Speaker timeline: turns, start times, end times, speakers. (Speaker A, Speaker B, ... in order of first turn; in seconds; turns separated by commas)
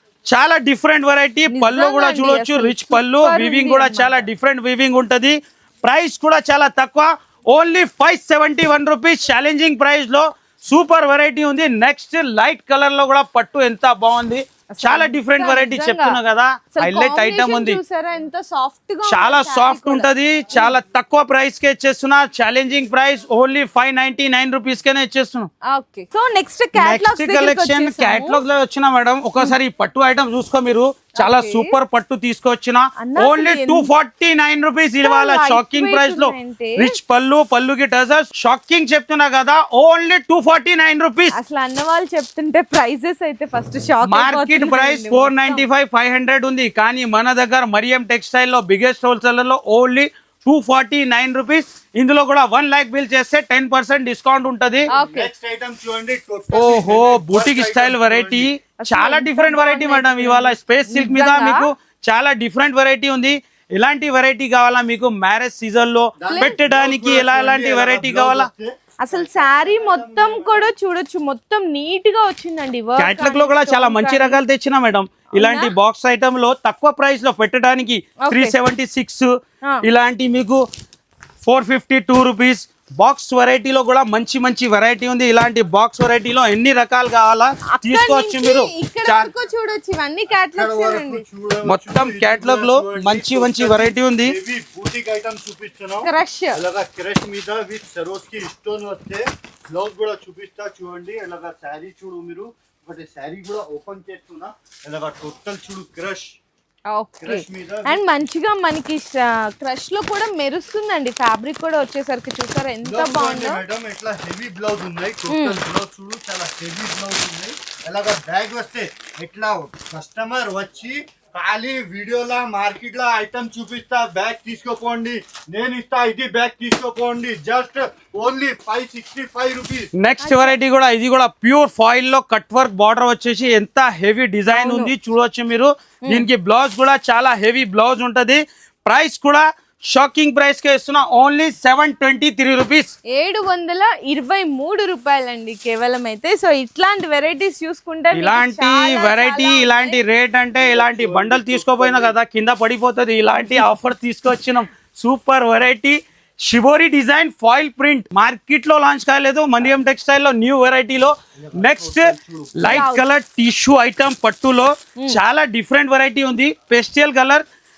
Speaker A: 0.2-17.8, Speaker B: 1.5-4.3, Speaker B: 14.7-16.2, Speaker B: 16.8-20.7, Speaker A: 19.1-25.5, Speaker B: 25.7-28.4, Speaker A: 26.7-41.3, Speaker B: 31.2-31.8, Speaker B: 33.0-33.9, Speaker B: 35.0-36.9, Speaker B: 41.3-45.6, Speaker A: 44.0-54.9, Speaker C: 54.9-58.5, Speaker B: 54.9-55.3, Speaker A: 56.5-68.5, Speaker B: 58.8-61.7, Speaker C: 66.2-70.7, Speaker B: 66.2-66.5, Speaker B: 69.0-74.4, Speaker A: 73.0-79.3, Speaker B: 75.3-75.7, Speaker B: 78.2-78.5, Speaker A: 79.8-80.6, Speaker A: 81.4-89.3, Speaker B: 87.7-91.2, Speaker C: 90.5-106.4, Speaker A: 91.7-94.3, Speaker B: 96.0-96.6, Speaker B: 106.9-113.6, Speaker C: 107.2-108.0, Speaker C: 112.8-129.9, Speaker B: 115.3-115.6, Speaker A: 130.0-142.9, Speaker B: 130.2-130.6, Speaker B: 134.5-134.9, Speaker B: 143.1-150.0, Speaker A: 148.1-167.4, Speaker C: 150.6-152.1, Speaker C: 161.4-162.8, Speaker B: 162.7-163.0